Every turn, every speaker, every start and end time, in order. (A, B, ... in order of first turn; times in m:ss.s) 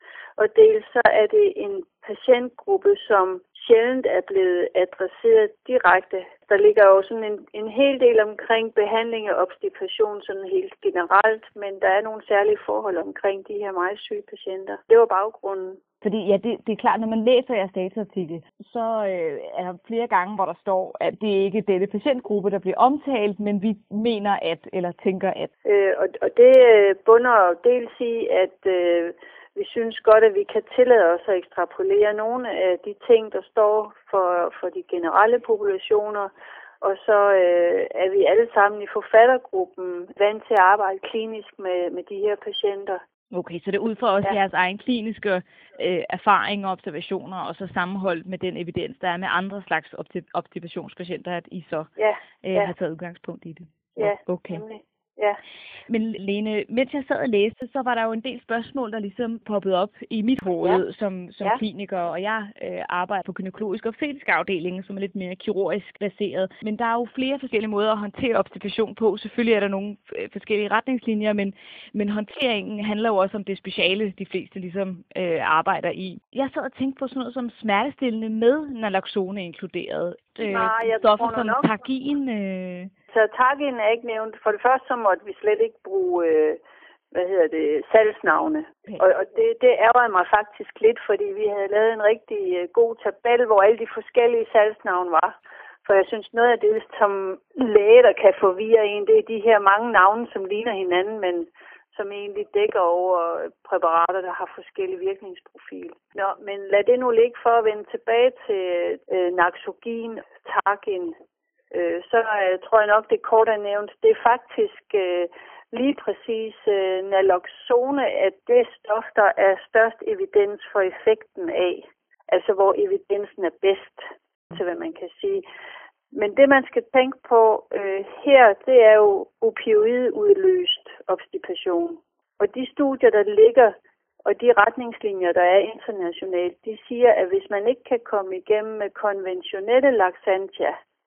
0:00.4-0:15.8 A
0:16.0-0:25.5 B
0:25.6-0:43.0 A
0:43.3-0:51.9 B
0:52.0-0:52.7 A
0:52.4-0:54.6 B
0:54.0-0:55.4 A
0:55.9-1:22.9 B
1:20.4-1:21.8 A
1:23.1-1:26.6 A
1:27.1-1:51.2 A
1:51.7-2:05.4 A
2:06.1-2:20.8 A